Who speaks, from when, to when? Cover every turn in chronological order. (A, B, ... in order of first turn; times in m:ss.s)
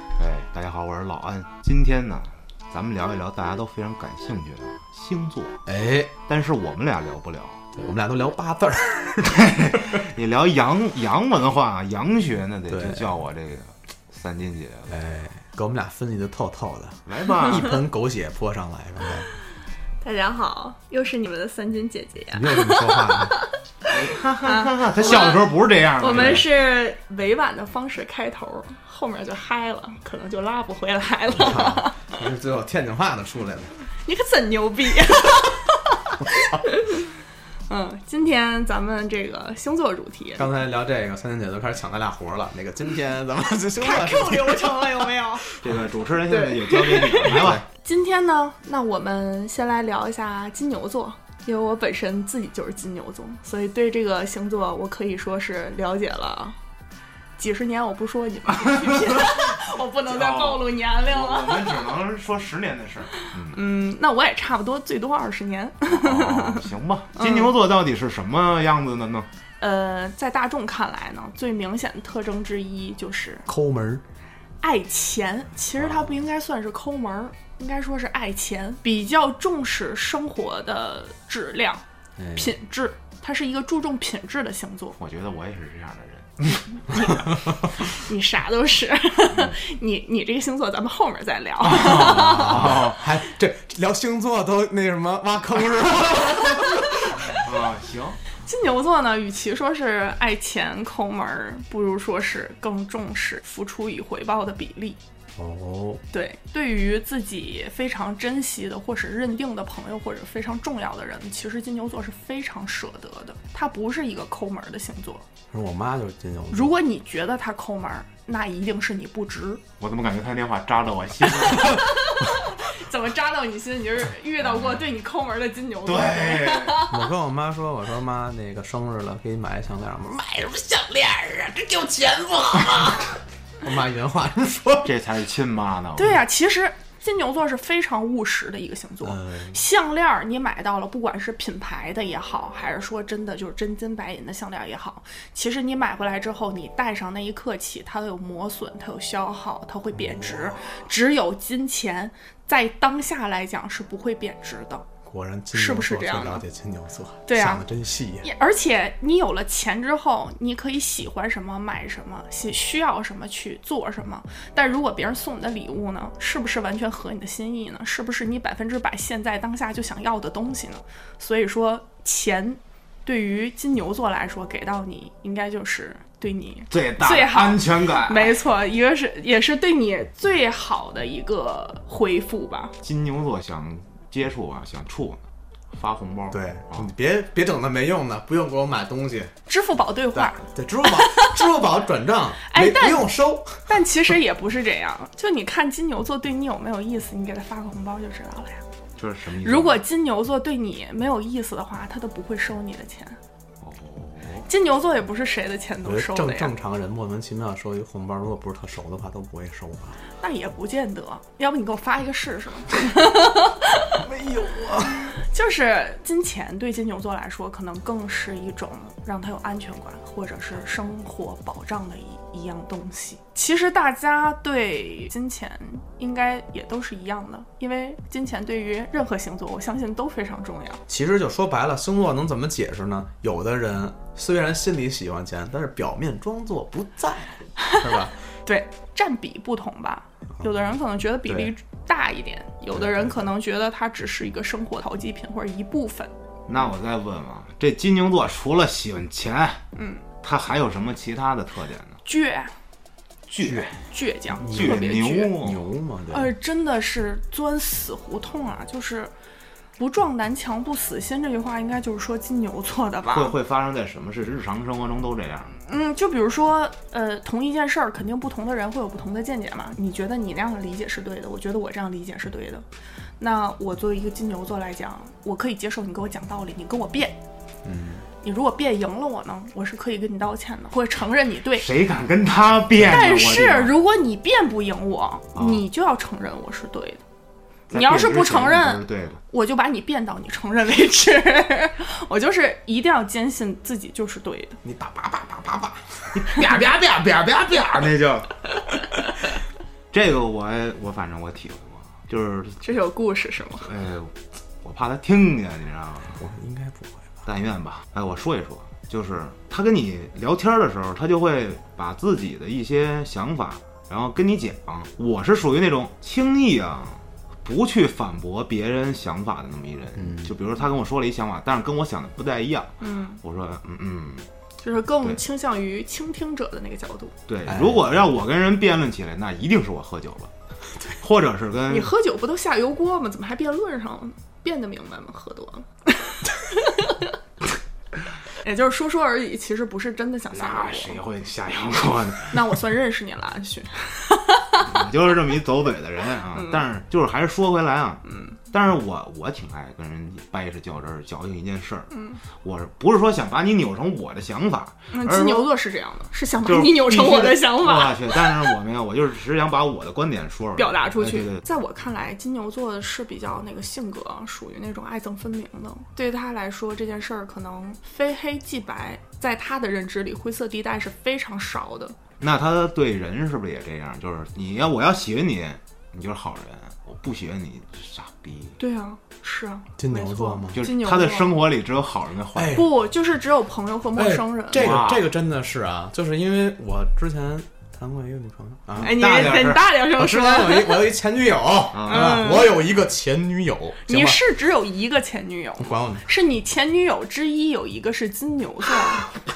0:00.2-0:05.6 A
0:05.7-0:06.1 B
0:06.3-0:07.6 A
0:07.8-0:10.0 B
0:09.4-0:15.0 A
0:12.7-0:13.2 B
0:14.9-0:19.3 B
0:17.1-0:17.8 A
0:20.0-0:23.5 C
0:22.3-0:23.4 B
0:23.9-0:26.5 A
0:24.4-0:32.1 C
0:26.1-0:26.4 B
0:31.3-0:33.7 B
0:34.0-0:37.1 C
0:37.7-0:40.5 C
0:40.4-0:45.8 B
0:43.8-0:45.5 C
0:45.6-0:47.6 A
0:46.3-0:56.6 C
0:47.2-0:47.6 B
0:57.4-1:01.9 C
0:58.7-1:03.6 A
1:03.1-1:06.6 C
1:05.9-1:09.3 A
1:07.2-1:07.5 C
1:09.6-1:13.5 C
1:13.5-1:14.0 B
1:14.6-1:25.0 C
1:15.8-1:16.1 B
1:22.2-1:22.6 B
1:25.0-1:27.0 A
1:26.9-1:32.8 C
1:31.7-1:33.0 A
1:31.7-1:37.3 B
1:37.3-1:38.2 A
1:38.4-1:45.0 C
1:45.4-1:46.0 B
1:46.1-1:55.2 C
1:55.5-1:56.8 B
1:56.5-1:59.6 C
1:59.8-2:01.9 A
2:01.4-2:07.0 C
2:04.5-2:04.8 A
2:05.8-2:06.8 A
2:06.9-2:14.9 B
2:14.8-2:16.2 A
2:16.0-2:34.9 C
2:19.0-2:19.6 B
2:30.0-2:30.6 B
2:35.1-2:38.3 B
2:35.5-2:36.4 C
2:37.3-2:37.6 C
2:38.2-3:02.7 C
2:56.7-2:58.4 A
3:02.8-3:05.2 A
3:05.7-3:06.9 A
3:06.3-3:09.3 B
3:09.5-3:11.4 C
3:10.1-3:13.7 B
3:12.5-3:18.6 C
3:19.0-3:19.8 A
3:19.4-3:23.2 C
3:23.6-3:24.5 A
3:24.5-3:26.5 C
3:25.8-3:30.0 B
3:30.2-3:34.0 C
3:33.9-3:35.2 B
3:35.2-3:50.8 C
3:50.9-3:58.2 B
3:58.5-4:06.1 C
4:02.7-4:03.2 B
4:06.5-4:09.6 A
4:09.8-4:10.0 C
4:10.2-4:12.0 A
4:12.0-4:12.6 C
4:13.3-4:13.8 A
4:13.9-4:15.3 C
4:14.4-4:15.6 A
4:14.4-4:16.3 B
4:16.1-4:19.1 C
4:19.8-4:23.4 C
4:23.1-4:25.6 A
4:25.6-4:32.6 C
4:33.2-4:37.2 C
4:37.6-4:38.0 B
4:38.2-4:41.7 C
4:41.6-4:43.7 A
4:42.8-4:47.0 C
4:45.4-4:45.6 A
4:47.7-4:49.2 A
4:47.7-4:54.6 C
4:54.6-4:56.2 B
4:56.2-4:58.4 A
4:59.9-5:02.6 A
5:02.6-5:03.7 C
5:03.6-5:06.2 A
5:06.2-5:07.1 B
5:07.3-5:24.3 A
5:20.0-5:20.4 B
5:22.8-5:23.2 C
5:24.6-5:27.1 C
5:27.3-5:30.3 A
5:27.5-5:28.0 B
5:31.0-5:31.9 A
5:31.7-5:37.2 C
5:38.4-5:41.0 C
5:40.3-5:42.5 A
5:42.3-5:44.7 C
5:44.6-5:51.9 A
5:46.4-5:46.6 C
5:48.1-5:48.4 C
5:51.9-5:52.2 C
5:52.4-5:55.5 A
5:54.9-5:58.5 C
5:56.4-6:01.4 A
6:00.6-6:12.0 C
6:12.2-6:18.6 A
6:18.6-6:21.4 C
6:19.8-6:20.6 B
6:20.5-6:22.6 A
6:22.4-6:22.8 B
6:22.5-6:24.6 C
6:24.0-6:29.0 B
6:24.5-6:25.1 A
6:28.8-6:29.7 A
6:28.8-6:30.9 C
6:29.9-6:34.2 B
6:31.7-6:32.2 A
6:31.8-6:32.6 C
6:33.9-6:39.1 C
6:35.6-6:36.1 B